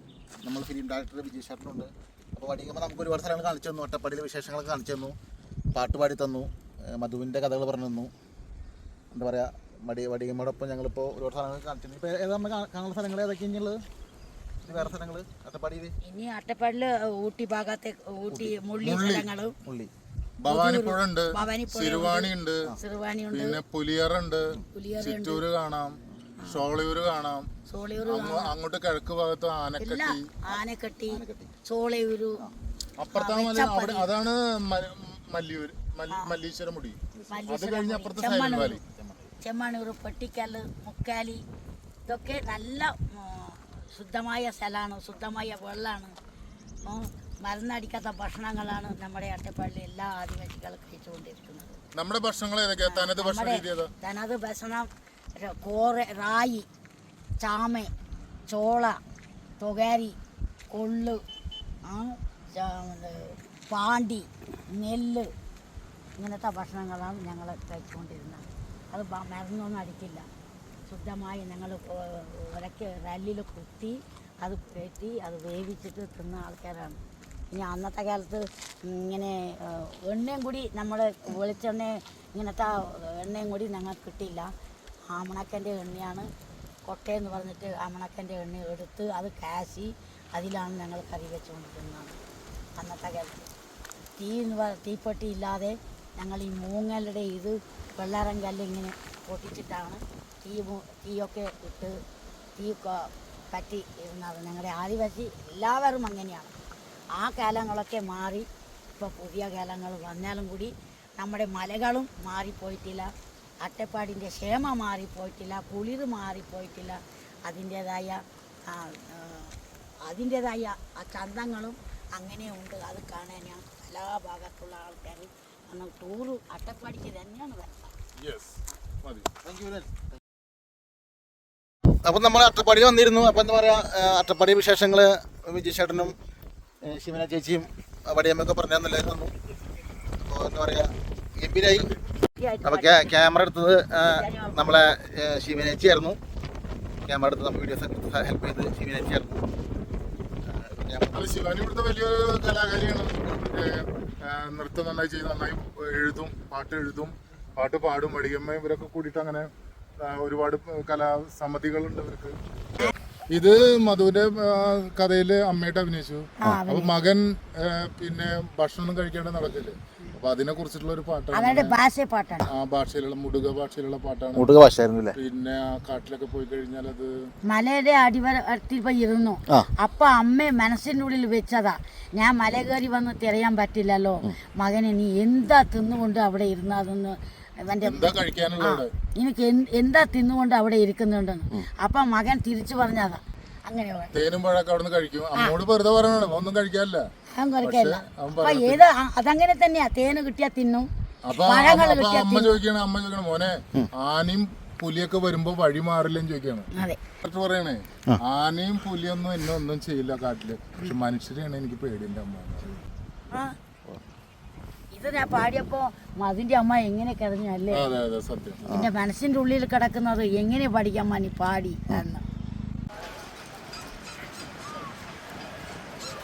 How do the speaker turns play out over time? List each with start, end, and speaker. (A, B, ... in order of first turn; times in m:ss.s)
0:00.4-0:05.1 A
0:05.7-0:08.1 A
0:09.1-0:13.8 A
0:14.6-0:15.9 A
0:16.0-0:19.5 B
0:18.8-0:19.3 C
0:19.6-0:19.9 A
0:20.4-0:22.7 C
0:20.5-0:23.6 B
0:23.3-0:27.5 C
0:24.7-0:25.4 B
0:27.7-0:28.5 B
0:28.0-0:30.2 C
0:29.8-0:32.4 B
0:31.1-0:31.5 A
0:33.0-0:38.8 C
0:33.1-0:34.1 B
0:36.1-0:36.4 B
0:37.2-0:37.5 A
0:37.3-0:38.8 B
0:38.8-0:39.3 A
0:39.4-0:41.4 B
0:42.1-0:46.1 B
0:46.8-0:51.8 B
0:52.0-0:53.9 C
0:52.8-0:56.7 B
0:57.4-0:57.9 B
0:58.5-0:59.0 B
0:59.6-1:00.2 B
1:00.7-1:01.2 B
1:01.8-1:05.3 B
1:06.2-1:10.3 B
1:10.9-1:17.0 B
1:17.5-1:24.5 B
1:25.1-1:26.3 B
1:26.9-1:32.2 B
1:32.8-1:33.5 B
1:34.2-1:41.9 B
1:42.6-1:46.5 B
1:47.2-1:48.5 B
1:49.0-1:53.1 B
1:53.6-2:07.9 B
2:08.2-2:09.3 C
2:09.4-2:10.0 A
2:12.0-2:16.2 A
2:16.8-2:19.3 A
2:20.2-2:22.0 A
2:22.4-2:23.3 B
2:22.6-2:26.2 A
2:24.0-2:24.8 B
2:27.1-2:29.4 A
2:30.5-2:31.4 A
2:31.1-2:39.5 C
2:40.0-2:42.4 C
2:42.9-2:51.8 C
2:46.4-2:47.0 B
2:51.3-2:52.5 B
2:52.5-2:54.5 C
2:54.4-2:55.2 A
2:55.1-2:57.1 C
2:57.5-3:14.2 B
3:07.8-3:08.9 C
3:14.1-3:17.1 C
3:17.3-3:22.6 B
3:17.6-3:18.8 C
3:21.2-3:26.7 C
3:26.7-3:27.0 B
3:27.2-3:32.7 C
3:34.9-3:37.8 B
3:37.7-3:38.7 C
3:38.7-3:42.2 B